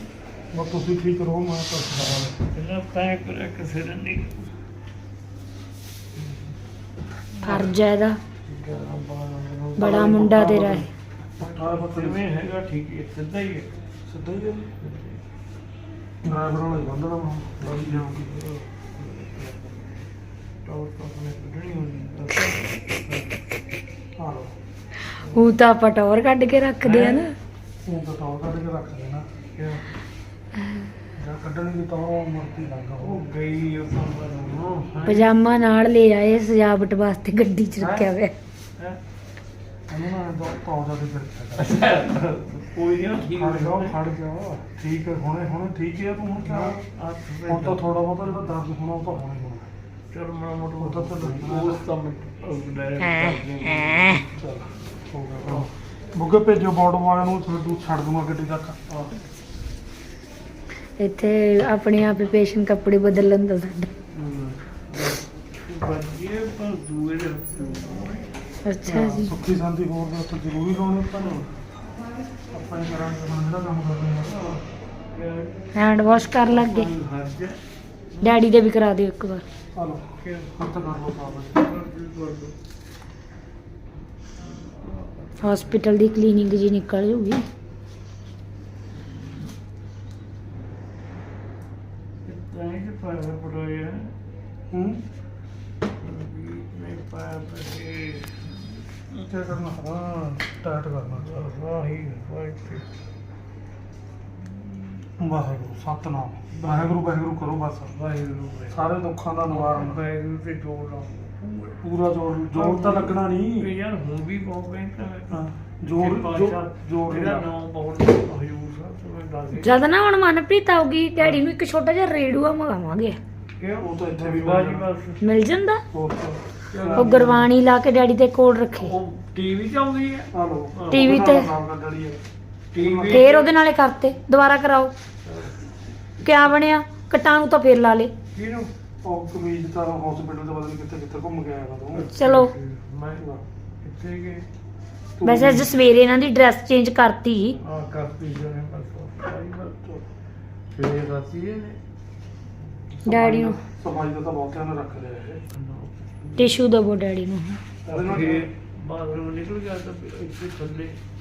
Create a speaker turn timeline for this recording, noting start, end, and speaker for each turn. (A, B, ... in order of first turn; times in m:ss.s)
0:00.5-0:02.3 A
0:01.9-0:04.5 B
0:07.4-0:07.7 B
0:07.4-0:08.2 C
0:08.4-0:13.7 B
0:09.8-0:10.9 C
0:11.4-0:12.2 A
0:14.0-0:14.7 A
0:14.8-0:15.2 B
0:16.2-0:18.4 A
0:17.6-0:20.0 B
0:20.6-0:23.4 B
0:24.2-0:24.5 A
0:25.2-0:25.5 B
0:25.2-0:27.3 C
0:26.8-0:27.2 B
0:27.8-0:29.2 A
0:29.6-0:29.9 B
0:31.2-0:33.3 A
0:33.0-0:35.3 B
0:35.0-0:38.3 C
0:37.8-0:38.1 B
0:39.9-0:41.8 A
0:41.6-0:44.0 B
0:43.3-0:46.8 A
0:46.4-0:47.9 B
0:47.4-0:49.7 A
0:50.1-0:54.4 B
0:50.8-0:51.8 A
0:53.0-0:54.2 C
0:54.3-0:58.8 A
0:55.4-0:55.7 B
0:58.9-0:59.2 B
1:01.0-1:03.9 C
1:04.1-1:08.3 B
1:08.6-1:09.3 C
1:08.8-1:11.4 A
1:11.2-1:11.4 B
1:12.5-1:14.6 A
1:14.3-1:17.6 B
1:15.7-1:16.9 C
1:18.2-1:19.4 C
1:19.7-1:21.6 A
1:20.2-1:22.5 B
1:24.4-1:25.8 B
1:25.4-1:27.4 C
1:29.0-1:29.3 B
1:32.2-1:34.1 B
1:34.7-1:35.0 A
1:36.0-1:38.5 B
1:39.2-1:41.4 A
1:41.1-1:42.9 B
1:45.2-1:48.0 A
1:46.5-1:46.9 B
1:47.9-1:48.9 B
1:48.7-1:50.0 A
1:49.5-1:51.8 B
1:51.8-1:53.7 A
1:52.5-1:59.8 B
1:55.3-1:57.5 A
1:59.6-2:03.2 C
2:01.2-2:01.5 B
2:03.6-2:05.3 B
2:03.8-2:04.8 A
2:05.2-2:05.8 C
2:05.9-2:07.2 A
2:06.7-2:07.5 B
2:06.9-2:08.9 C
2:08.8-2:11.1 B
2:10.3-2:12.2 A
2:10.9-2:11.5 C
2:12.7-2:13.5 B
2:12.8-2:13.3 A
2:13.1-2:14.9 C
2:15.2-2:15.7 B
2:16.2-2:18.1 C
2:18.3-2:18.7 B
2:19.0-2:22.1 A
2:21.9-2:23.2 B
2:22.1-2:22.5 C
2:23.2-2:23.4 A
2:23.8-2:24.5 B
2:25.2-2:25.7 A
2:25.2-2:27.6 C
2:27.6-2:29.8 B
2:30.7-2:31.8 B
2:32.9-2:33.6 B
2:33.0-2:33.6 C
2:33.8-2:35.4 A
2:35.5-2:36.6 B
2:36.4-2:37.6 C
2:37.8-2:38.5 A
2:37.9-2:41.0 B